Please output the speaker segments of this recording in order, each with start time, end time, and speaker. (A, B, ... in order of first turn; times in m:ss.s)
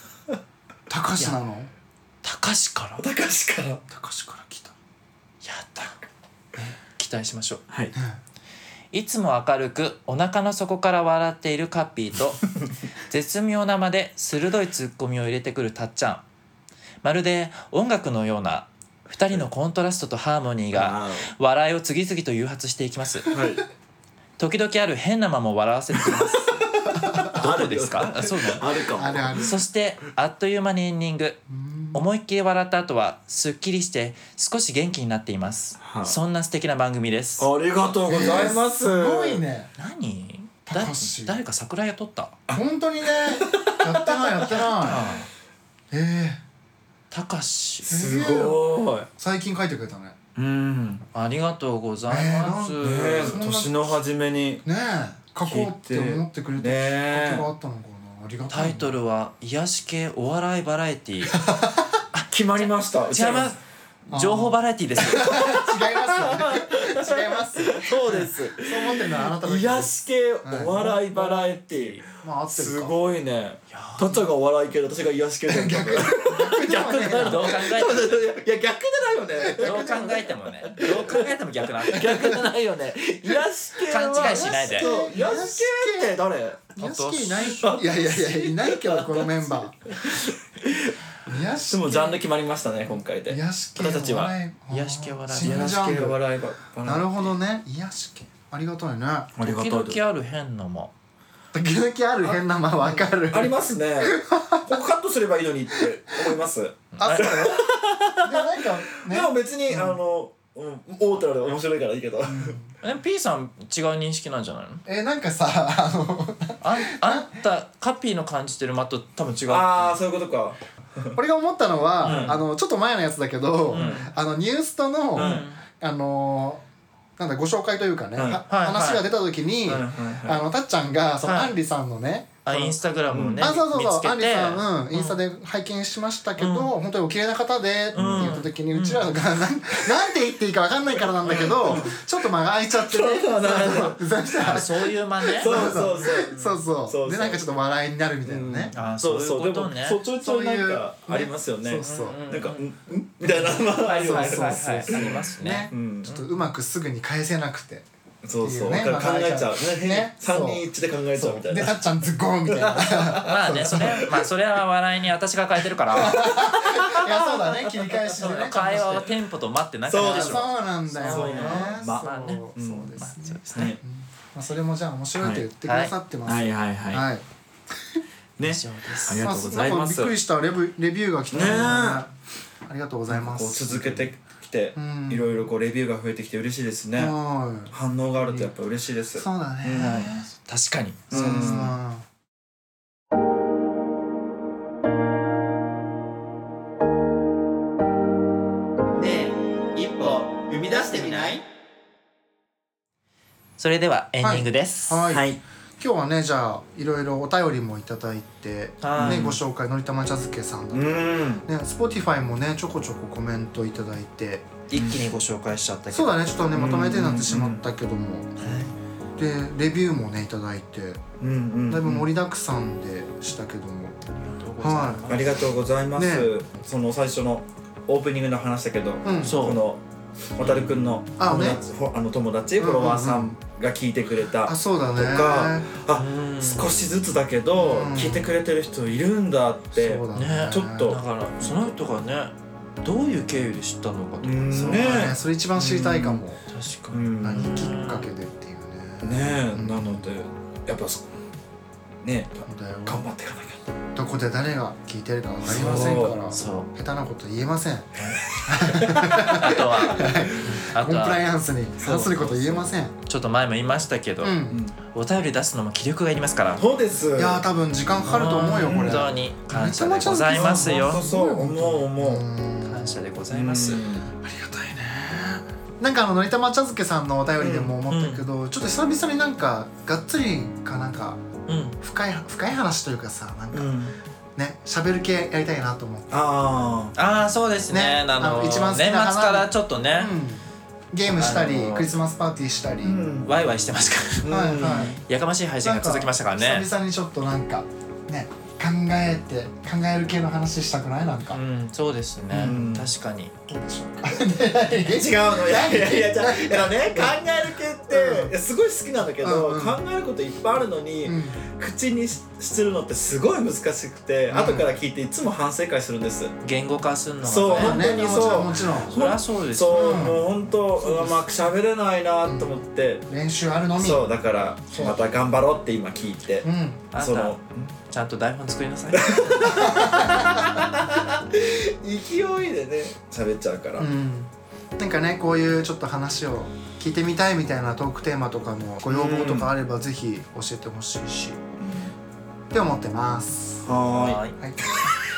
0:00.9-0:01.7 A
0:02.2-0:03.0 B
0:03.0-0:03.8 C
0:03.9-0:04.7 A
0:05.4-0:06.0 B
0:06.9-0:07.6 B
0:08.9-0:12.5 B
0:13.1-0:16.2 B
0:17.0-0:23.3 B
0:20.7-0:21.3 C
0:23.3-0:23.6 C
0:24.4-0:26.7 B
0:26.0-0:29.5 C
0:27.3-0:28.7 B
0:28.9-0:29.6 A
0:29.4-0:31.4 B
0:31.5-0:32.0 A
0:31.9-0:37.5 B
0:35.8-0:36.2 C
0:37.4-0:39.4 C
0:38.1-0:39.7 A
0:39.8-0:42.4 B
0:40.6-0:41.4 A
0:42.5-0:45.1 C
0:42.5-0:45.0 A
0:44.8-0:45.3 B
0:45.9-0:46.4 A
0:47.1-0:47.9 B
0:47.8-0:49.1 C
0:47.8-0:50.2 A
0:50.4-0:51.0 C
0:51.1-0:53.4 B
0:52.1-0:54.0 A
0:52.8-0:54.6 C
0:54.6-0:58.9 A
0:55.4-0:57.5 C
0:58.5-1:01.4 B
1:01.3-1:01.9 A
1:02.1-1:03.6 B
1:02.3-1:03.5 C
1:04.1-1:05.3 B
1:04.1-1:11.5 A
1:05.0-1:21.3 C
1:11.1-1:12.0 B
1:12.1-1:13.0 A
1:13.7-1:14.2 B
1:15.5-1:17.8 A
1:16.7-1:18.1 B
1:19.4-1:20.3 A
1:19.6-1:22.5 B
1:21.8-1:26.7 C
1:23.8-1:25.0 B
1:24.2-1:26.1 A
1:26.8-1:30.0 A
1:26.8-1:27.6 B
1:27.6-1:30.9 C
1:31.2-1:32.2 A
1:31.7-1:34.4 C
1:33.3-1:36.2 A
1:34.7-1:36.0 B
1:35.4-1:37.3 C
1:36.8-1:39.3 A
1:39.4-1:40.0 C
1:39.4-1:40.9 B
1:41.5-1:44.8 A
1:42.2-1:52.5 C
1:45.8-1:46.3 A
1:46.9-1:47.3 B
1:47.0-1:47.7 A
1:48.2-1:49.9 A
1:52.2-1:52.7 A
1:52.8-1:54.8 B
1:54.8-1:57.3 A
1:56.6-2:00.0 B
1:59.5-2:01.2 C
2:01.1-2:06.6 A
2:02.0-2:02.4 B
2:02.0-2:02.4 C
2:03.7-2:04.1 C
2:03.7-2:04.1 B
2:05.2-2:05.4 C
2:05.2-2:05.6 B
2:07.2-2:12.8 A
2:08.1-2:08.4 C
2:08.5-2:09.1 B
2:09.6-2:10.4 C
2:11.2-2:11.5 B
2:12.4-2:15.2 B
2:13.1-2:13.6 C
2:13.4-2:28.7 A
2:16.4-2:16.7 B
2:17.9-2:19.1 B
2:18.0-2:18.5 C
2:21.2-2:22.0 C
2:21.3-2:22.0 B
2:22.8-2:24.0 C
2:24.3-2:26.6 B
2:25.4-2:26.3 C
2:26.8-2:27.4 C
2:28.2-2:36.2 C
2:28.7-2:30.0 B
2:30.2-2:32.2 A
2:31.8-2:32.7 B
2:33.3-2:37.8 A
2:33.6-2:36.2 B
2:38.2-2:41.7 C
2:38.4-2:40.6 A
2:41.2-2:44.1 A
2:42.5-2:44.2 C
2:43.2-2:46.3 B
2:45.9-2:48.9 C
2:45.9-2:49.1 A
2:48.2-2:53.8 B
2:49.8-2:53.0 C
2:49.9-2:57.2 A
2:53.5-2:53.8 C
2:55.2-2:55.9 B
2:56.2-2:57.1 C
2:58.4-3:00.2 C
2:58.4-2:59.2 B
2:59.1-3:02.1 A
3:01.3-3:02.1 C
3:02.6-3:04.0 A
3:03.1-3:07.2 C
3:04.7-3:05.5 A
3:07.0-3:08.5 A
3:07.7-3:10.1 C
3:09.2-3:10.3 A
3:09.7-3:11.7 B
3:11.1-3:11.7 C
3:11.1-3:12.0 A
3:18.9-3:21.4 D
3:23.6-3:25.0 B
3:24.2-3:34.5 A
3:25.1-3:25.4 C
3:28.8-3:29.4 B
3:28.9-3:29.4 C
3:30.7-3:31.4 C
3:34.7-3:36.2 B
3:34.8-3:35.0 C
3:35.9-3:38.6 A
3:36.5-3:37.6 C
3:38.4-3:38.8 B
3:39.2-3:41.0 A
3:41.2-3:42.1 C
3:41.7-3:44.0 A
3:44.1-3:45.6 B
3:44.6-3:45.0 A
3:45.1-3:49.8 C
3:45.9-3:46.3 A
3:49.0-3:49.5 A
3:49.2-3:49.6 B
3:50.3-4:01.7 C
3:50.4-3:50.6 B
3:51.2-3:51.6 A
3:52.6-3:53.4 A
3:54.4-3:55.7 A
3:55.9-3:56.7 B
3:57.5-3:58.3 A
3:59.7-4:01.0 A
4:00.1-4:05.2 B
4:04.2-4:06.2 C
4:04.5-4:06.4 A
4:06.5-4:08.1 B
4:06.9-4:07.7 C
4:07.2-4:10.1 A
4:09.0-4:11.1 C
4:12.0-4:13.6 C
4:12.5-4:13.0 A
4:13.9-4:17.9 A
4:15.4-4:16.2 C
4:16.3-4:16.7 B
4:18.0-4:21.2 B
4:18.4-4:22.9 A
4:18.7-4:19.3 C
4:21.8-4:24.4 B
4:24.2-4:24.6 A
4:24.5-4:24.7 C
4:24.9-4:26.6 B
4:26.6-4:27.4 C
4:27.1-4:33.0 A
4:28.0-4:31.0 B
4:28.6-4:29.1 C
4:30.1-4:32.2 C
4:32.6-4:33.8 B
4:33.3-4:34.1 C
4:34.2-4:41.2 A
4:37.4-4:37.8 C
4:37.9-4:38.2 B
4:41.5-4:41.8 B
4:41.8-4:43.8 A
4:43.5-4:43.9 C
4:44.4-4:46.2 A
4:46.1-4:46.9 C
4:47.0-4:50.1 B
4:47.7-4:53.0 A
4:51.0-4:52.0 B
4:52.8-4:53.3 C
4:53.2-4:56.7 B
4:54.2-4:55.0 C
4:54.3-4:55.0 A
4:55.6-5:01.4 A
5:01.3-5:03.3 B
5:02.3-5:02.9 C
5:03.5-5:07.2 A
5:04.8-5:16.3 C
5:07.9-5:08.3 A
5:09.2-5:09.8 A
5:11.0-5:11.4 A
5:14.3-5:14.7 A
5:16.4-5:20.2 B
5:17.2-5:23.1 C
5:17.5-5:19.0 A
5:19.7-5:20.2 A
5:20.8-5:21.2 A
5:22.2-5:22.5 A
5:23.1-5:24.2 A
5:23.8-5:27.7 C
5:24.7-5:25.2 A
5:26.4-5:26.8 A
5:26.9-5:29.7 B
5:28.9-5:33.9 C
5:29.4-5:30.6 A
5:33.8-5:41.4 A
5:38.9-5:39.5 C
5:41.6-5:41.9 C
5:42.5-5:43.7 A
5:43.6-5:44.2 C
5:43.8-5:44.4 B
5:44.4-5:44.7 A